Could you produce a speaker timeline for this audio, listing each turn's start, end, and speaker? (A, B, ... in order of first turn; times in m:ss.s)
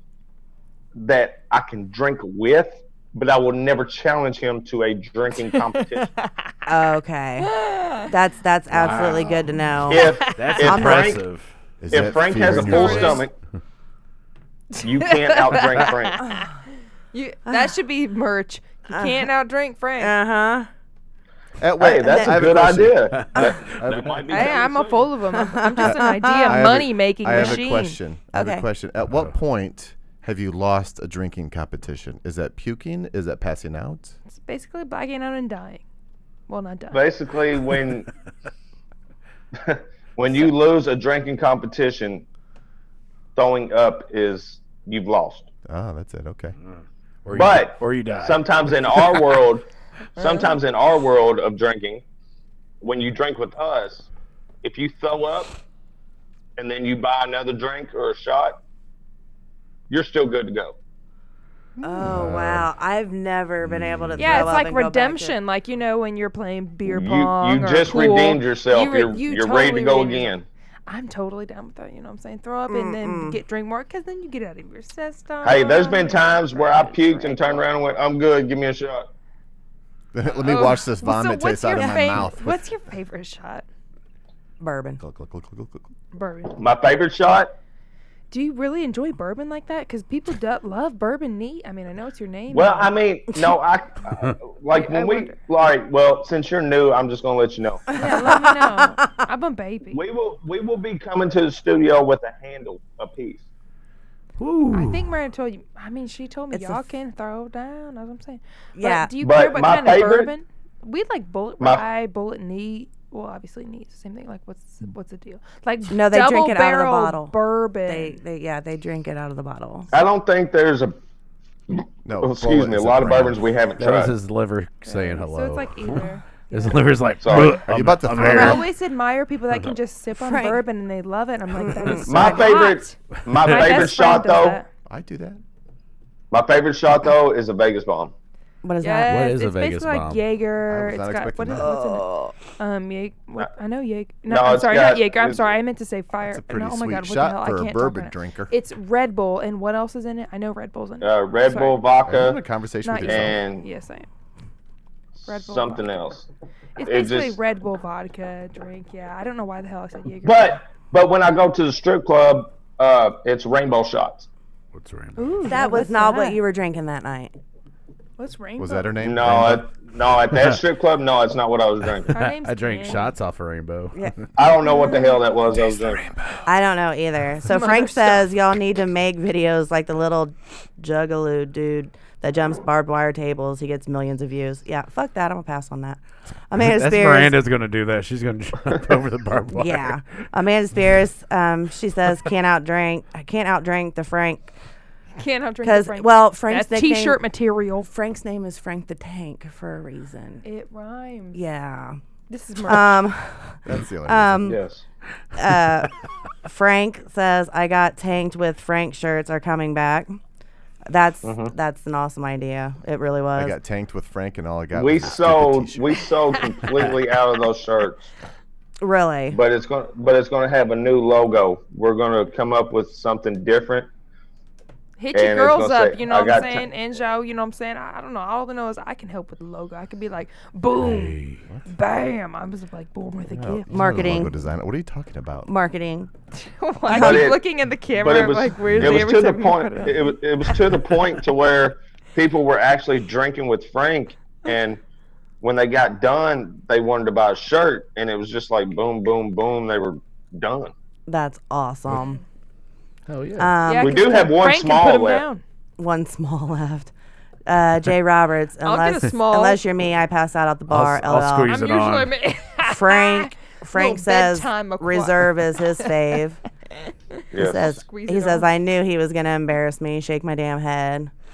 0:01.0-0:06.1 A
0:05.4-0:06.3 B
0:06.6-0:11.2 C
0:07.4-0:08.1 B
0:08.7-0:09.4 D
0:09.9-0:11.2 A
0:09.9-0:10.6 B
0:10.3-0:11.5 D
0:11.8-0:13.2 E
0:11.9-0:13.3 A
0:12.4-0:13.2 B
0:14.8-0:16.5 B
0:14.8-0:16.2 A
0:17.1-0:20.2 B
0:17.4-0:17.7 C
0:18.9-0:19.3 C
0:20.0-0:20.7 C
0:21.6-0:24.6 E
0:21.8-0:25.1 A
0:22.0-0:22.3 C
0:23.3-0:23.6 C
0:24.3-0:28.0 B
0:25.4-0:26.6 C
0:25.8-0:34.2 E
0:27.4-0:27.6 C
0:28.3-0:28.6 C
0:29.0-0:29.3 D
0:34.3-0:35.8 B
0:36.5-0:37.0 B
0:36.9-0:38.1 A
0:39.5-0:42.2 A
0:43.4-0:45.5 A
0:45.7-0:46.6 E
0:46.7-0:49.2 D
0:47.3-0:49.6 A
0:50.2-0:52.0 A
0:50.2-0:50.5 B
0:52.8-0:54.1 A
0:54.6-0:55.5 A
0:56.6-0:58.6 A
0:59.9-1:00.8 A
1:01.8-1:02.7 E
1:01.8-1:05.4 C
1:03.6-1:04.4 E
1:04.2-1:10.3 B
1:06.8-1:10.4 A
1:10.9-1:17.6 B
1:12.7-1:13.4 C
1:15.4-1:19.0 A
1:20.1-1:22.6 E
1:20.4-1:23.6 B
1:24.6-1:25.0 C
1:25.0-1:25.9 E
1:26.1-1:26.6 B
1:26.6-1:27.5 A
1:28.3-1:32.9 B
1:32.5-1:37.9 A
1:34.7-1:35.4 B
1:37.9-1:39.1 C
1:37.9-1:40.0 B
1:39.9-1:43.5 A
1:44.4-1:45.1 D
1:44.7-1:58.2 B
1:46.5-1:46.8 C
1:48.8-1:49.1 C
1:49.2-1:50.3 A
1:55.9-1:59.9 C
1:59.9-2:01.0 A
2:01.7-2:04.2 A
2:02.0-2:03.5 E
2:03.8-2:08.6 D
2:04.8-2:06.8 B
2:07.2-2:07.7 A
2:07.5-2:08.7 E
2:08.2-2:14.7 B
2:10.2-2:10.6 C
2:11.6-2:12.4 C
2:12.0-2:14.6 A
2:14.8-2:15.4 E
2:16.3-2:18.1 A
2:18.6-2:19.2 C
2:18.8-2:31.8 B
2:19.1-2:20.2 D
2:20.7-2:21.7 E
2:21.5-2:22.3 C
2:24.3-2:25.6 A
2:26.2-2:28.5 E
2:31.0-2:32.4 A
2:32.1-2:33.4 E
2:32.8-2:34.1 B
2:33.0-2:33.7 A
2:35.2-2:36.3 A
2:35.3-2:35.8 B
2:36.8-2:40.6 B
2:36.8-2:37.4 A
2:40.2-2:44.3 A
2:44.7-2:45.6 D
2:45.2-2:46.4 B
2:45.4-2:47.3 C
2:48.2-2:48.9 B
2:48.6-2:49.7 E
2:49.0-2:52.1 A
2:52.1-2:54.1 D
2:52.1-2:53.1 B
2:54.4-2:56.1 A
2:54.6-2:55.2 B
2:55.5-2:56.4 E
2:56.4-3:07.3 C
2:57.5-2:58.2 B
3:06.6-3:10.0 D
3:09.5-3:14.5 C
3:15.2-3:17.9 B
3:15.6-3:17.2 C
3:17.9-3:20.4 C
3:20.4-3:21.4 B
3:21.3-3:22.0 C
3:22.3-3:23.0 B
3:22.6-3:24.6 C
3:23.6-3:24.6 E
3:24.4-3:24.8 A
3:25.4-3:25.9 C
3:26.4-3:30.2 C
3:30.9-3:33.6 C
3:31.2-3:31.5 A
3:33.4-3:36.0 E
3:34.7-3:38.1 A
3:38.8-3:39.4 C
3:39.3-3:43.9 A
3:45.0-3:54.0 B
3:45.1-3:46.7 A
3:50.8-3:51.4 D
3:53.3-3:55.5 E
3:53.7-3:54.3 C
3:55.4-3:56.1 C
3:56.4-4:00.8 B
3:56.9-3:57.3 C
3:56.9-3:57.4 A
3:58.0-4:04.8 A
4:05.4-4:10.7 A
4:11.1-4:12.2 C
4:13.1-4:13.6 D
4:13.4-4:14.2 C
4:13.6-4:15.4 B
4:13.8-4:15.2 A
4:15.8-4:16.9 C
4:17.4-4:21.6 C
4:18.6-4:19.6 B
4:20.7-4:22.1 D
4:21.5-4:26.2 B
4:22.6-4:26.4 C
4:27.2-4:28.5 B
4:27.3-4:27.8 A
4:27.4-4:31.1 C